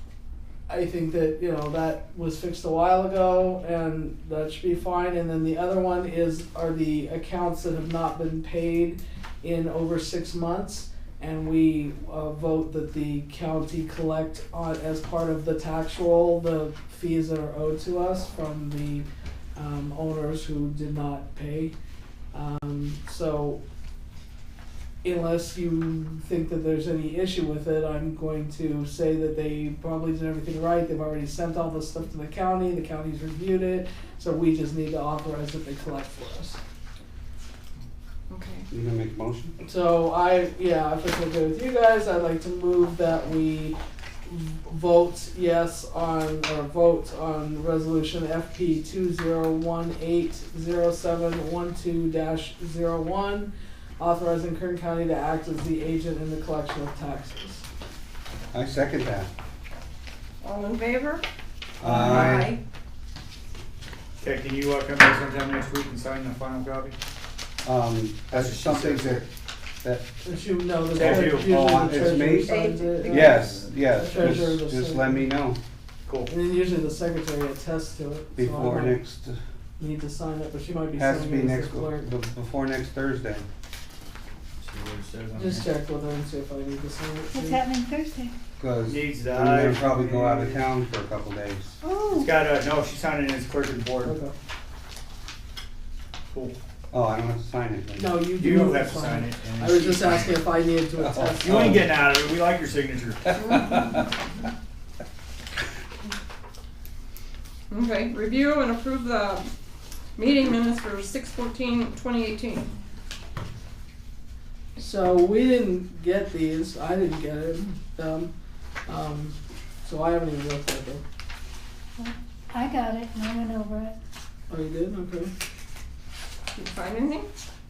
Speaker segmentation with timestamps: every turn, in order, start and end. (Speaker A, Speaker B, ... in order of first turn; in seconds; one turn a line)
Speaker A: 0.7-21.7
Speaker A: 22.3-23.6
Speaker A: 25.0-36.6
Speaker B: 38.3-38.6
Speaker C: 38.7-39.5
Speaker A: 39.6-57.6
Speaker C: 58.5-59.3
Speaker D: 60.4-61.2
Speaker C: 61.8-62.5
Speaker D: 61.9-62.6
Speaker B: 62.0-62.4
Speaker B: 64.2-67.0
Speaker C: 67.6-69.2
Speaker B: 68.3-69.2
Speaker A: 70.2-75.3
Speaker B: 71.0-71.6
Speaker C: 71.0-75.6
Speaker B: 73.0-73.6
Speaker B: 76.1-76.3
Speaker A: 76.3-79.0
Speaker C: 78.4-79.4
Speaker A: 79.8-82.1
Speaker C: 81.0-83.5
Speaker B: 84.6-85.7
Speaker A: 85.3-87.6
Speaker E: 87.3-88.3
Speaker C: 88.6-91.8
Speaker B: 88.9-90.7
Speaker E: 91.8-92.3
Speaker B: 92.1-94.2
Speaker A: 94.0-94.3
Speaker B: 96.3-96.6
Speaker C: 96.9-98.2
Speaker A: 98.0-101.8
Speaker B: 98.4-100.4
Speaker C: 101.0-101.8
Speaker B: 101.4-104.0
Speaker D: 107.7-109.5
Speaker D: 110.2-112.7
Speaker A: 114.8-118.3
Speaker A: 118.9-121.0
Speaker E: 122.0-124.0
Speaker A: 124.5-125.3
Speaker D: 126.6-127.3